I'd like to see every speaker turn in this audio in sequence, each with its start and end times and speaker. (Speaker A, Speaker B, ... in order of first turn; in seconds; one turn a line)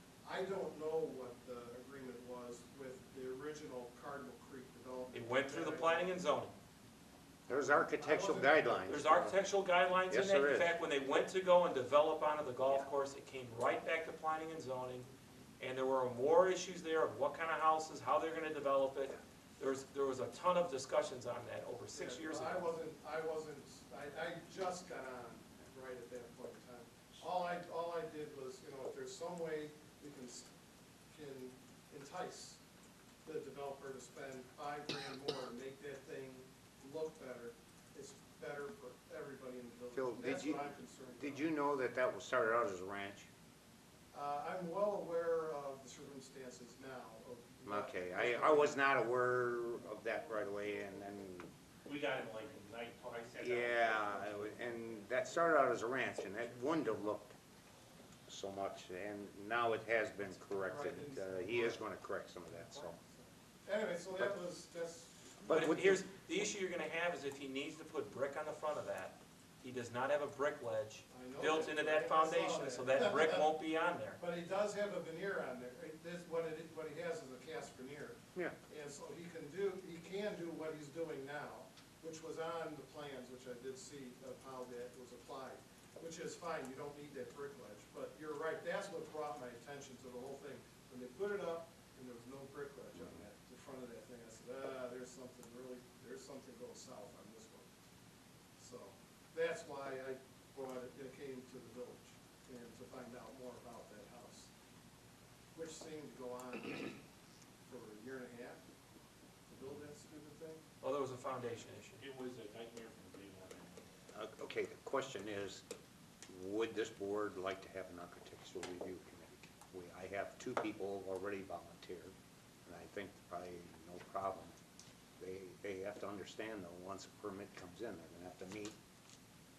Speaker A: 0.2-6.2
Speaker B: 5.1-6.5
Speaker C: 7.5-9.4
Speaker A: 8.0-9.3
Speaker B: 8.9-15.1
Speaker C: 10.1-10.7
Speaker B: 15.6-22.6
Speaker A: 21.9-30.5
Speaker A: 31.1-32.6
Speaker A: 33.2-41.5
Speaker C: 39.9-40.6
Speaker C: 41.2-43.3
Speaker A: 44.1-48.8
Speaker C: 47.6-51.5
Speaker D: 51.8-54.7
Speaker C: 53.4-57.3
Speaker C: 58.3-63.0
Speaker A: 60.5-61.9
Speaker A: 62.5-65.7
Speaker C: 65.4-66.0
Speaker B: 65.5-74.2
Speaker A: 71.1-73.6
Speaker A: 74.2-97.7
Speaker A: 98.6-104.5
Speaker A: 105.5-107.0
Speaker A: 107.7-108.6
Speaker A: 109.5-110.6
Speaker B: 110.8-112.0
Speaker D: 112.0-113.8
Speaker C: 114.1-115.6
Speaker C: 116.3-122.1
Speaker C: 122.6-124.5
Speaker C: 125.2-128.7